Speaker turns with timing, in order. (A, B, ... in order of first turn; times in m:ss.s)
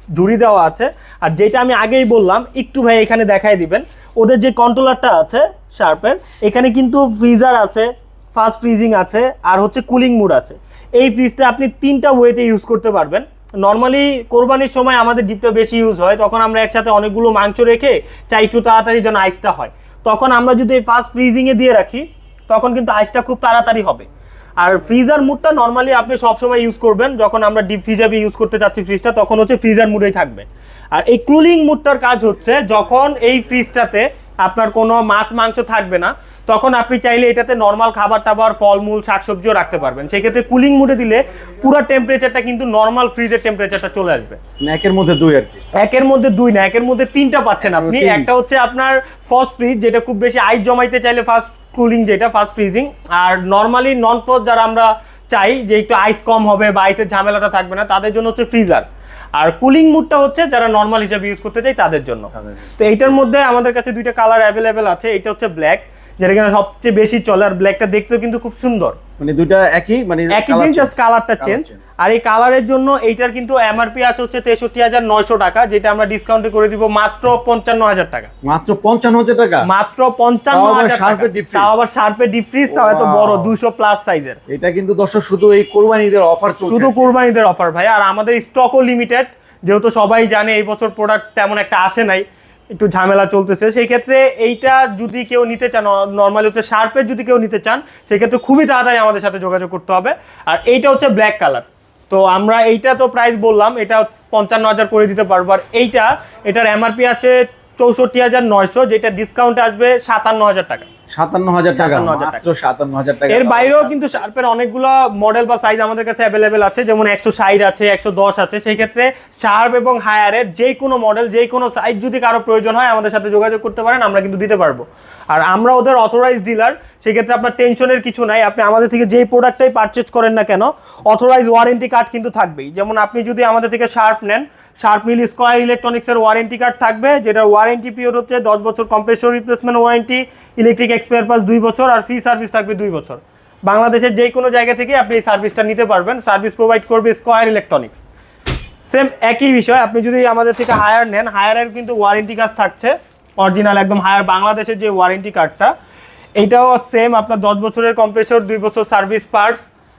0:00.1-0:24.1 A
0:24.6-0:44.4 A
0:44.6-0:45.6 B
0:45.8-1:09.0 A
0:47.6-0:48.3 B
1:02.3-1:03.1 B
1:09.2-1:12.0 B
1:10.3-1:18.3 A
1:18.4-1:19.6 B
1:19.6-1:24.4 A
1:20.5-1:21.8 B
1:22.7-1:23.5 B
1:24.5-1:27.0 B
1:26.7-1:32.2 A
1:32.7-1:50.9 A
1:51.1-1:54.3 B
1:51.7-1:52.4 A
1:53.3-2:28.0 A
2:28.8-2:35.7 A
2:36.4-2:39.6 A